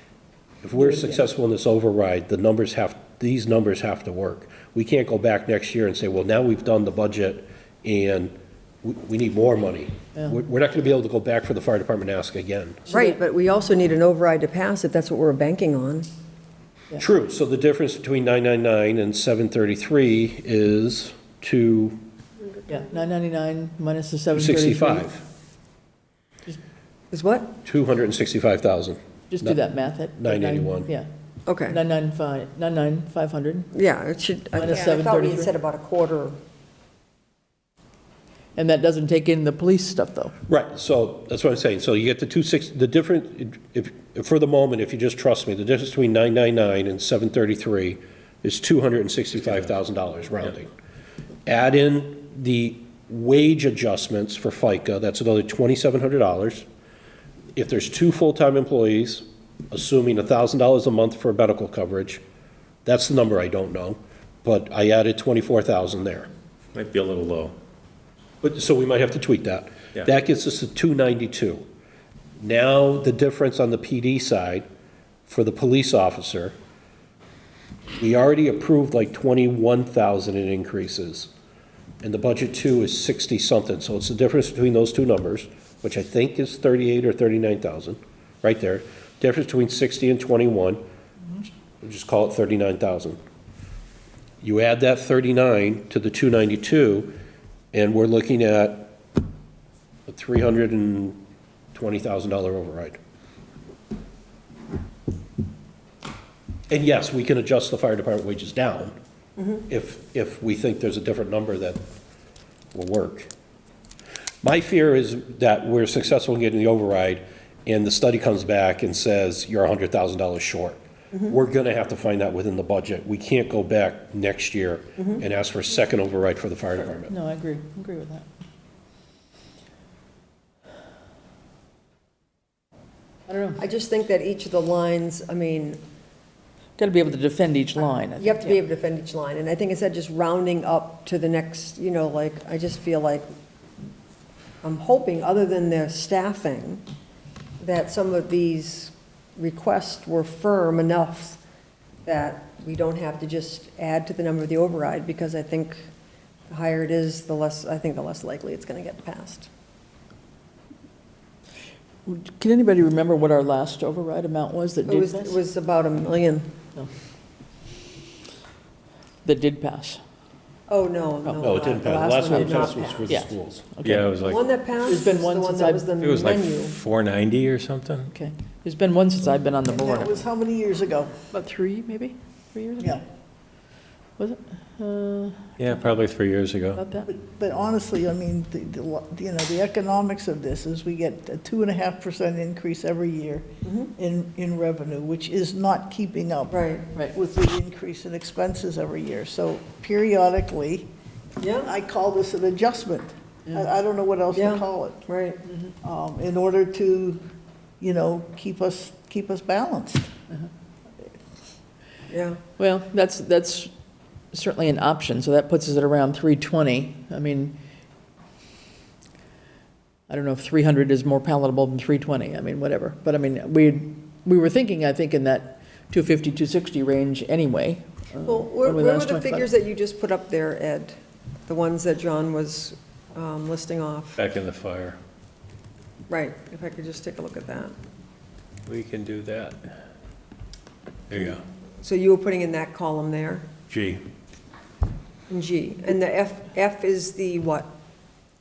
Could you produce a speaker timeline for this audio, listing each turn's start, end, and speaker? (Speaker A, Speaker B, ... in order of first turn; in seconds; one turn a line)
Speaker A: 0.6-12.9
Speaker B: 12.9-16.1
Speaker A: 16.9-22.0
Speaker C: 22.7-25.1
Speaker A: 24.3-25.2
Speaker B: 27.1-27.5
Speaker A: 27.6-29.6
Speaker C: 29.3-31.1
Speaker A: 30.2-30.9
Speaker B: 31.5-31.8
Speaker C: 31.7-33.7
Speaker B: 33.7-36.3
Speaker C: 34.5-35.5
Speaker C: 38.5-40.3
Speaker A: 40.5-50.7
Speaker A: 51.5-56.6
Speaker A: 57.5-62.2
Speaker A: 62.8-66.3
Speaker D: 66.7-67.5
Speaker A: 68.4-71.6
Speaker A: 72.4-74.6
Speaker A: 75.3-76.5
Speaker A: 78.0-81.3
Speaker A: 82.0-90.8
Speaker A: 91.8-93.2
Speaker A: 94.4-97.2
Speaker A: 97.7-99.0
Speaker A: 100.1-101.2
Speaker A: 101.7-103.0
Speaker A: 106.7-108.9
Speaker A: 109.7-111.8
Speaker A: 112.7-113.3
Speaker A: 114.4-127.1
Speaker C: 127.1-128.3
Speaker C: 133.3-133.6
Speaker B: 133.6-135.8
Speaker C: 136.8-138.5
Speaker B: 138.2-143.3
Speaker B: 144.6-146.8
Speaker B: 147.6-151.4
Speaker B: 152.1-155.8
Speaker B: 156.5-159.5
Speaker C: 162.1-165.4
Speaker B: 164.8-166.5
Speaker C: 169.2-170.0
Speaker B: 170.7-173.1
Speaker C: 171.2-174.1
Speaker A: 171.4-173.7
Speaker D: 173.8-174.4
Speaker B: 174.2-176.7
Speaker C: 174.8-175.9
Speaker D: 176.0-178.1
Speaker C: 178.1-180.2
Speaker E: 179.7-181.1
Speaker C: 181.3-183.0
Speaker C: 184.2-185.7
Speaker D: 185.6-186.8
Speaker C: 186.8-187.1
Speaker E: 187.1-200.9
Speaker B: 193.6-193.9
Speaker B: 196.5-196.9
Speaker B: 201.4-201.7
Speaker E: 201.6-205.0
Speaker B: 204.3-205.4
Speaker E: 205.8-207.2
Speaker E: 207.8-210.1
Speaker B: 212.1-212.4
Speaker C: 212.6-213.7
Speaker C: 214.3-217.6
Speaker C: 220.1-229.5
Speaker B: 228.2-230.9
Speaker B: 231.5-234.2
Speaker D: 234.2-235.0
Speaker B: 236.1-237.7
Speaker D: 238.7-239.6
Speaker D: 241.1-241.4
Speaker B: 241.8-243.4
Speaker D: 243.7-244.0
Speaker B: 245.3-247.7